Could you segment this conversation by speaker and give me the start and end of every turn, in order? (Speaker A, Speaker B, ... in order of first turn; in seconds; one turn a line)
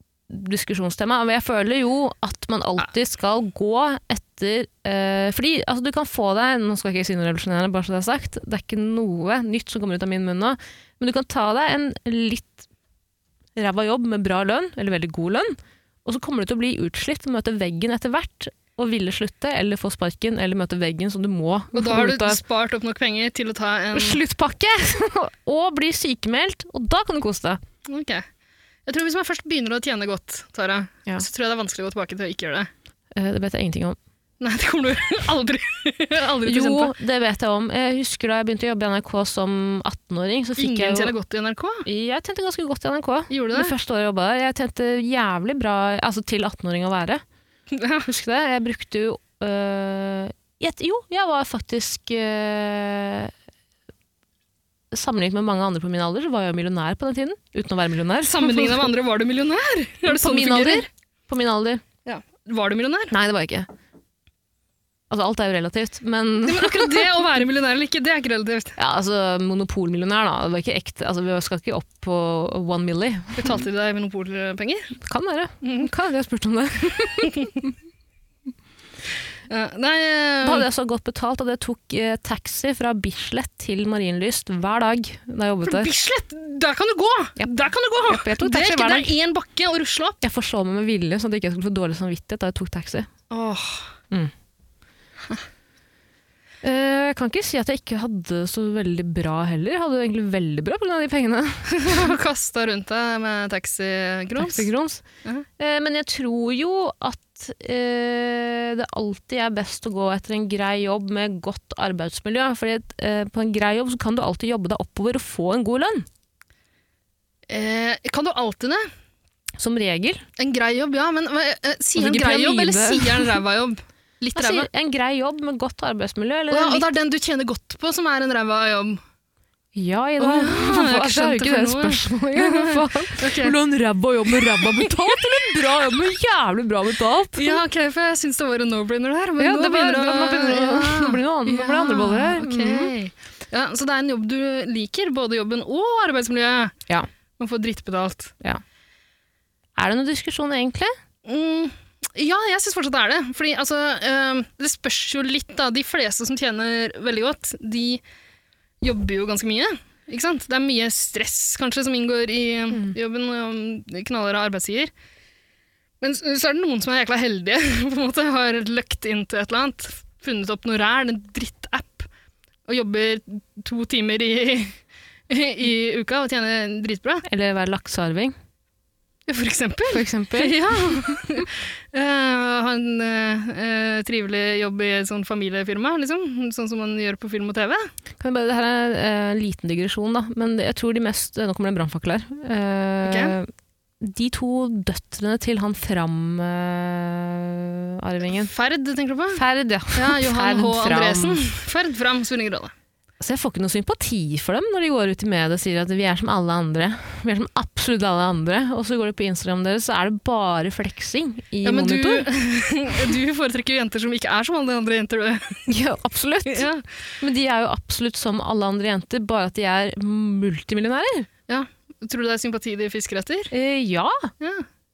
Speaker A: 0.3-12.7
Speaker A: 13.6-22.4
Speaker B: 21.7-24.2
Speaker A: 23.9-27.6
Speaker B: 27.9-28.2
Speaker B: 28.9-32.7
Speaker A: 33.1-34.0
Speaker B: 34.4-36.9
Speaker A: 36.4-41.1
Speaker B: 40.6-41.9
Speaker A: 41.8-47.2
Speaker B: 43.3-43.7
Speaker B: 47.7-48.1
Speaker A: 48.0-53.3
Speaker A: 54.9-58.9
Speaker B: 58.2-60.9
Speaker A: 60.0-61.8
Speaker B: 62.0-63.1
Speaker A: 63.1-63.7
Speaker A: 65.1-67.2
Speaker B: 66.4-68.8
Speaker A: 68.8-73.6
Speaker B: 73.3-74.9
Speaker A: 75.0-77.7
Speaker B: 75.6-75.9
Speaker B: 79.5-80.7
Speaker A: 80.4-85.9
Speaker B: 85.6-90.2
Speaker A: 88.0-89.1
Speaker A: 90.2-93.1
Speaker B: 93.3-93.9
Speaker A: 96.6-102.1
Speaker B: 101.7-104.7
Speaker A: 104.4-105.0
Speaker A: 105.6-116.1
Speaker B: 117.5-118.9
Speaker A: 119.6-120.2
Speaker B: 120.4-124.7
Speaker A: 122.0-123.4
Speaker A: 124.3-126.9
Speaker B: 126.5-129.0
Speaker A: 129.7-137.6
Speaker B: 130.2-133.6
Speaker B: 134.3-135.8
Speaker B: 137.3-146.8
Speaker A: 139.4-142.9
Speaker B: 147.4-148.3
Speaker A: 149.8-150.9
Speaker B: 151.2-158.0
Speaker B: 158.8-164.9
Speaker B: 166.0-172.1
Speaker B: 172.7-174.8
Speaker B: 175.3-177.2
Speaker A: 177.2-178.3
Speaker B: 179.3-187.9
Speaker A: 179.9-181.1
Speaker A: 188.2-193.5
Speaker B: 193.0-193.3
Speaker A: 194.0-198.5
Speaker B: 198.3-202.7
Speaker A: 199.3-201.4
Speaker A: 203.2-212.3
Speaker B: 211.6-215.7
Speaker A: 215.7-216.7
Speaker B: 216.4-216.8
Speaker A: 217.2-221.3
Speaker B: 221.5-223.5
Speaker A: 223.5-224.3
Speaker B: 224.4-224.7